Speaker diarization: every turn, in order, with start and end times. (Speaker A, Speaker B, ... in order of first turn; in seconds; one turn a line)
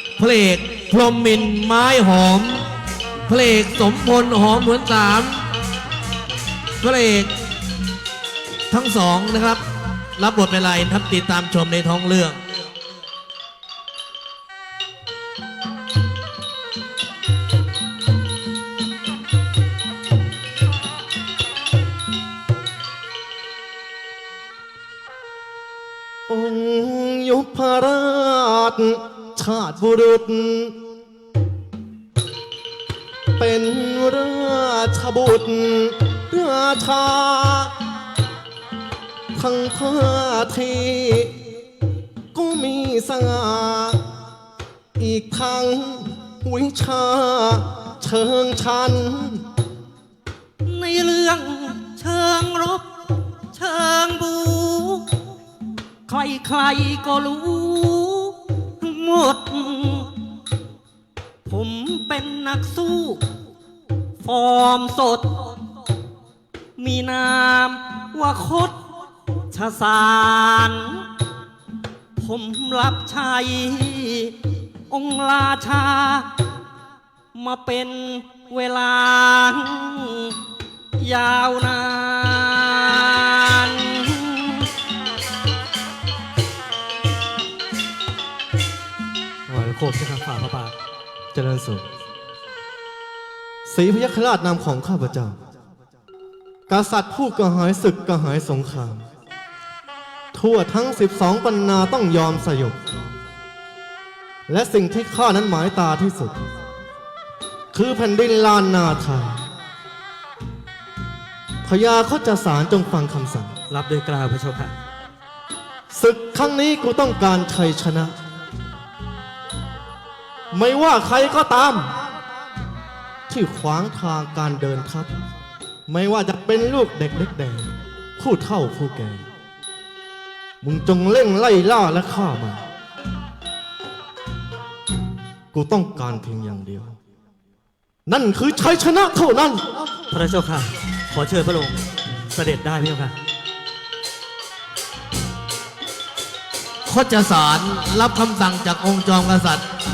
Speaker A: 0.2-2.7
Speaker A: 3.3-5.5
Speaker A: 6.8-7.3
Speaker A: 8.7-9.6
Speaker A: 10.2-12.4
Speaker B: 26.3-30.9
Speaker B: 33.4-37.7
Speaker B: 39.3-41.4
Speaker B: 42.3-44.1
Speaker B: 45.0-49.5
Speaker C: 50.6-55.2
Speaker C: 56.1-60.1
Speaker C: 61.5-63.3
Speaker C: 64.2-65.6
Speaker C: 66.8-68.8
Speaker C: 69.5-71.1
Speaker C: 72.2-76.5
Speaker C: 77.3-80.4
Speaker C: 81.0-84.7
Speaker D: 89.5-90.7
Speaker B: 91.3-91.9
Speaker B: 93.7-95.4
Speaker B: 96.7-99.0
Speaker B: 100.3-102.8
Speaker B: 104.5-106.4
Speaker B: 107.7-109.5
Speaker B: 111.6-113.6
Speaker D: 113.7-114.7
Speaker B: 115.9-118.2
Speaker B: 120.5-122.0
Speaker B: 123.3-125.1
Speaker B: 125.9-129.2
Speaker B: 130.6-132.6
Speaker B: 135.5-137.0
Speaker B: 138.1-139.8
Speaker D: 140.1-143.1
Speaker A: 146.9-149.6